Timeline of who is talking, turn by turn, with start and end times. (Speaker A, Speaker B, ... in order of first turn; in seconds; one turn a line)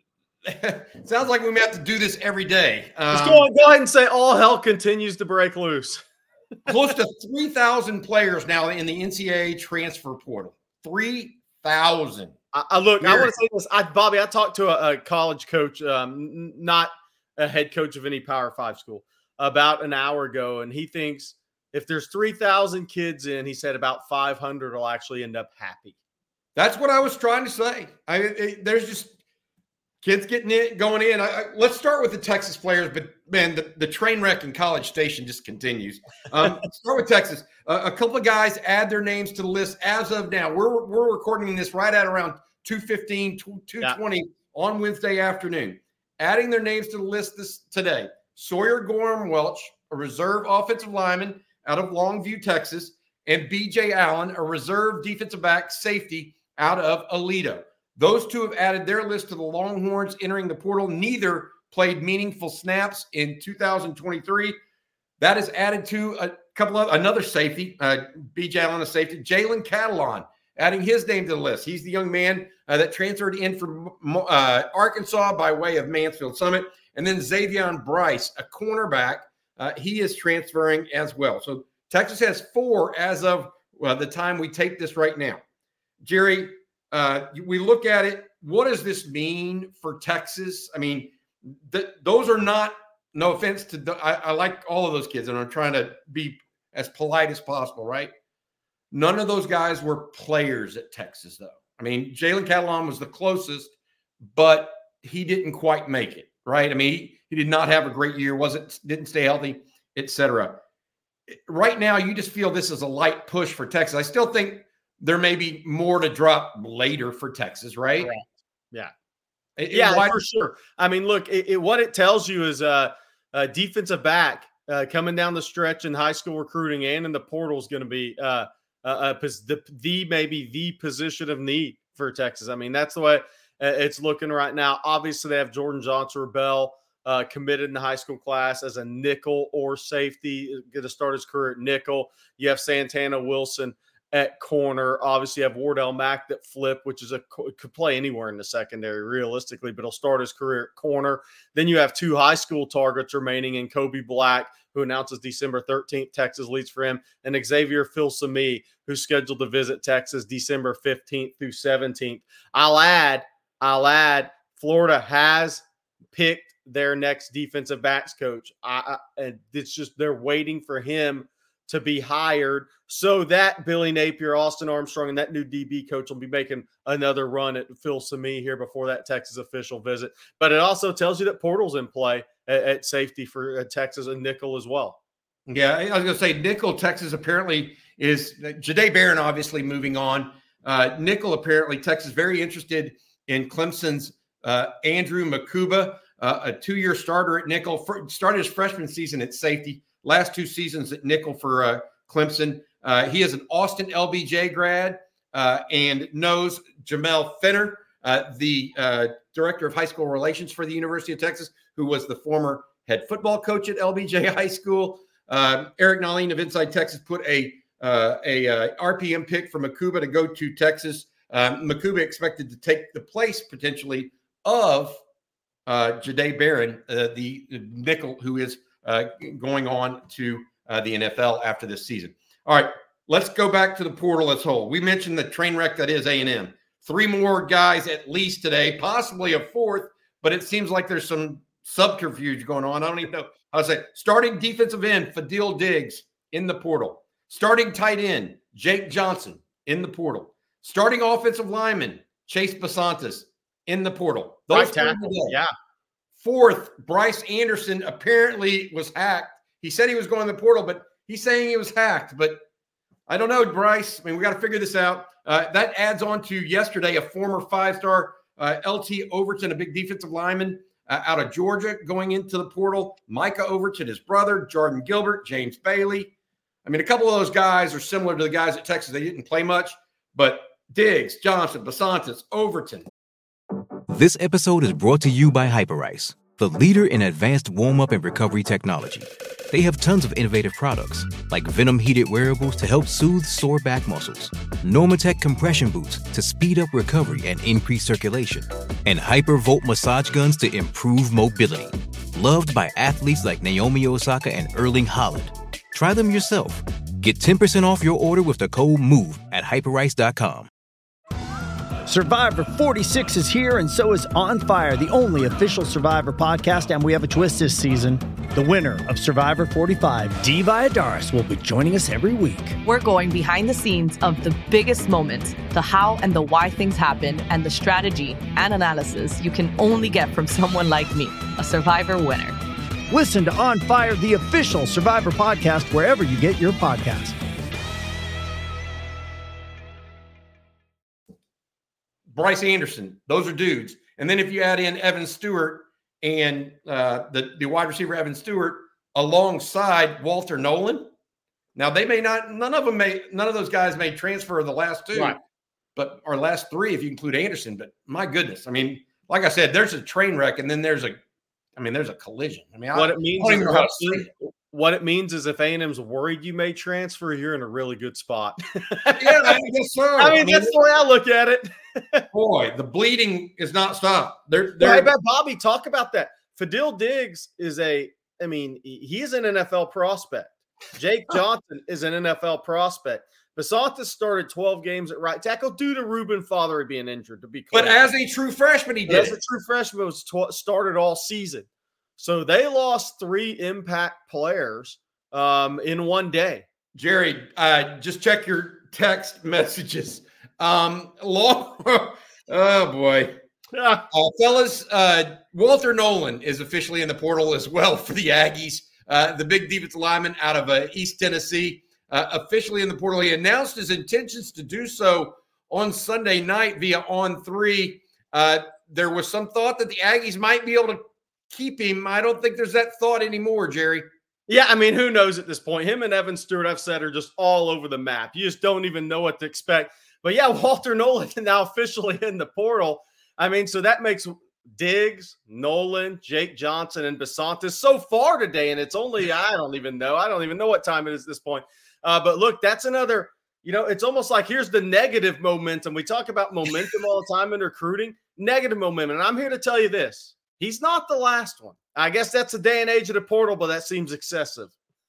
Speaker A: 0.5-3.5
Speaker B: 3.1-6.0
Speaker A: 6.7-12.3
Speaker B: 12.5-25.9
Speaker A: 13.0-13.3
Speaker A: 26.6-29.1
Speaker A: 30.0-64.5
Speaker A: 65.2-85.4
Speaker A: 86.0-98.1
Speaker A: 98.9-103.8
Speaker A: 104.3-110.6
Speaker A: 111.3-118.1
Speaker B: 118.0-118.9
Speaker A: 119.6-120.2
Speaker B: 119.7-185.0
Speaker A: 185.5-225.0
Speaker A: 225.7-255.4
Speaker B: 254.5-255.5
Speaker A: 256.2-262.4
Speaker A: 263.1-276.1
Speaker A: 276.6-282.9
Speaker C: 283.9-310.5
Speaker D: 311.9-322.6
Speaker E: 322.6-332.4
Speaker D: 332.9-337.2
Speaker A: 342.1-350.9
Speaker A: 351.6-355.2
Speaker B: 354.9-355.2
Speaker A: 355.8-361.0
Speaker A: 361.6-364.1
Speaker B: 362.7-369.3
Speaker A: 369.0-370.5
Speaker B: 370.0-372.1
Speaker A: 372.1-374.9
Speaker B: 374.6-387.8
Speaker A: 387.5-389.2
Speaker B: 388.9-391.5
Speaker B: 392.0-396.5
Speaker A: 396.8-403.2
Speaker B: 403.6-403.8
Speaker A: 403.9-423.9
Speaker B: 424.3-454.5